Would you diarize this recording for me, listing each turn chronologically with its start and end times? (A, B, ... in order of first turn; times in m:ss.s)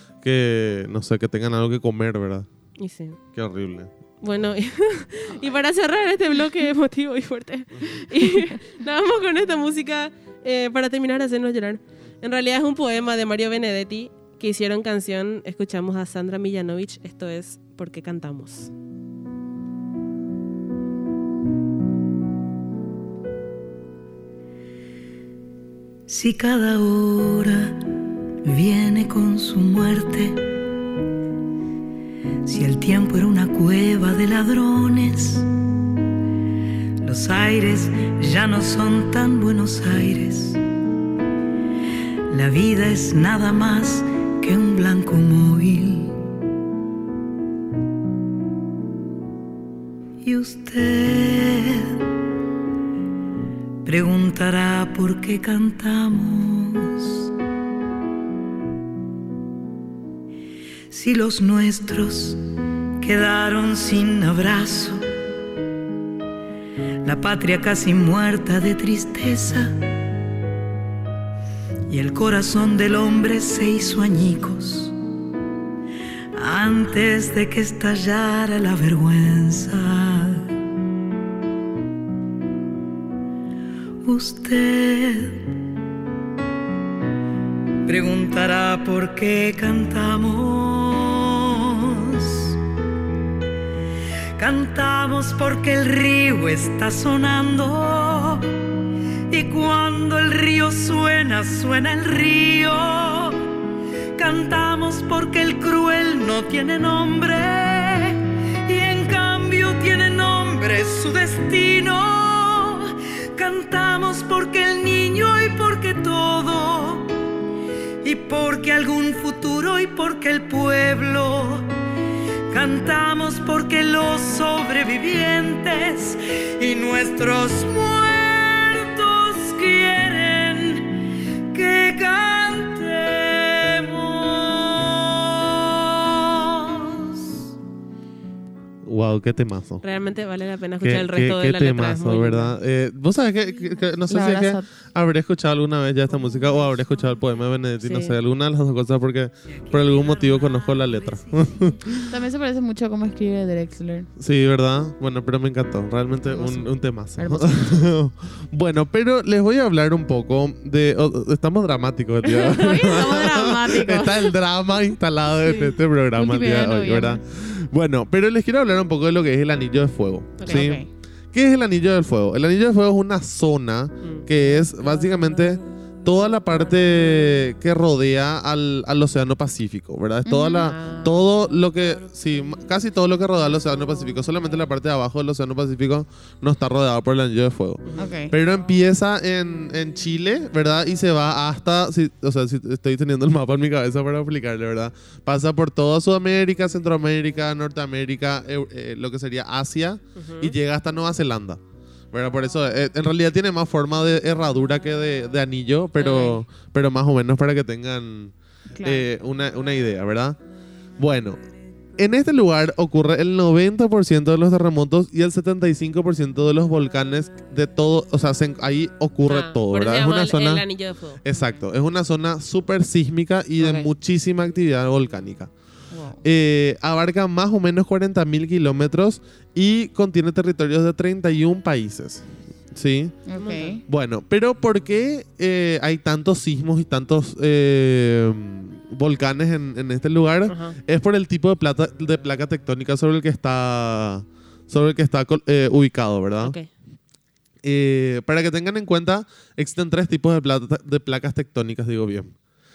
0:00.2-0:02.5 A
0:02.8-0:03.2 B
0:03.4-0:03.9 A
0:04.2-0:18.7 B
0:26.1-0:27.8 C
0:28.4-0:30.4 C
0:32.4-0:35.5 C
0:37.0-0:40.6 C
0:42.3-0:46.2 C
0:50.2-0:52.0 C
0:53.8-0:57.3 C
1:00.9-1:02.4 C
1:03.0-1:05.0 C
1:07.0-1:09.8 C
1:11.9-1:14.9 C
1:16.4-1:20.5 C
1:24.0-1:25.4 C
1:27.9-1:32.6 C
1:34.4-1:38.5 C
1:39.3-1:43.4 C
1:44.2-1:57.1 C
1:58.0-2:01.7 C
2:02.5-2:10.9 C
2:11.5-2:15.6 C
2:16.5-2:17.0 C
2:18.8-2:19.8 A
2:19.8-2:22.6 B
2:20.8-2:32.1 A
2:24.1-2:24.7 D
2:27.8-2:28.2 B
2:29.6-2:31.7 C
2:32.1-2:34.1 D
2:34.2-3:21.6 A
2:36.3-2:37.8 D
2:42.2-2:44.4 D
2:45.6-2:47.2 D
2:50.4-2:50.7 B
2:50.4-2:50.9 D
3:00.3-3:00.7 D
3:00.6-3:01.2 B
3:08.0-3:08.4 D
3:20.2-3:20.6 B
3:22.1-3:30.4 A
3:26.0-3:26.4 B
3:28.8-3:29.0 D
3:31.0-3:31.4 A
3:32.0-3:40.6 A
3:39.3-3:41.2 B
3:41.2-3:45.5 A
3:43.6-3:43.9 B
3:45.9-3:46.2 D
3:46.2-3:53.2 A
3:53.3-3:53.8 D
3:53.4-3:53.8 B
3:53.8-4:06.6 A
4:00.5-4:00.8 B
4:06.4-4:06.7 B
4:07.6-4:12.3 A